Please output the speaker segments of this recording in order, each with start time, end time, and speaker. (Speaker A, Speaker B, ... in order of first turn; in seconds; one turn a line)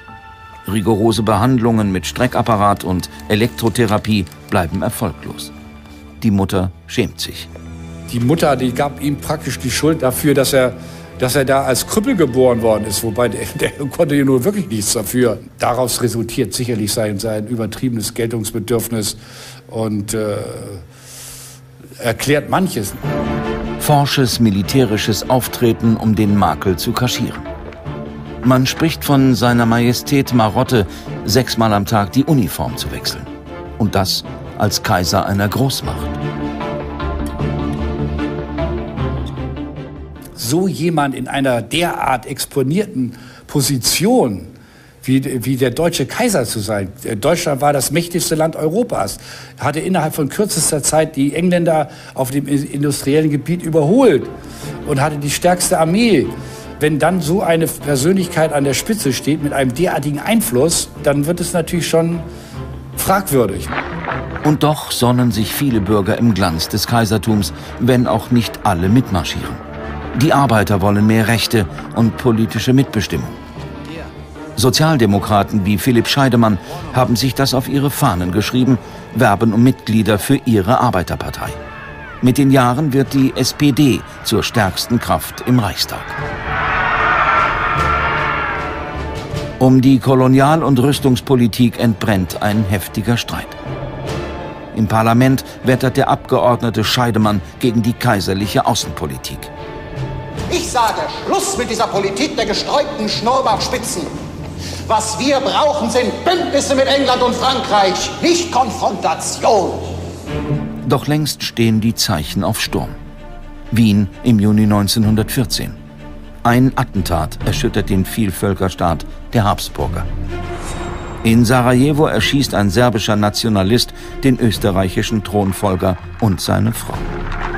Speaker A: 0.7-5.5
Speaker A: 6.2-7.5
Speaker B: 8.1-20.8
Speaker B: 22.0-23.0
Speaker A: 23.8-27.4
Speaker A: 28.4-36.2
Speaker B: 40.4-54.3
Speaker B: 54.8-62.2
Speaker B: 63.0-63.7
Speaker A: 64.4-69.6
Speaker A: 70.1-73.4
Speaker A: 74.5-81.6
Speaker A: 82.2-86.2
Speaker A: 89.6-93.5
Speaker A: 94.7-99.5
Speaker C: 100.5-104.1
Speaker C: 104.8-110.0
Speaker A: 110.8-113.0
Speaker A: 113.7-115.8
Speaker A: 116.4-120.1
Speaker A: 121.2-127.1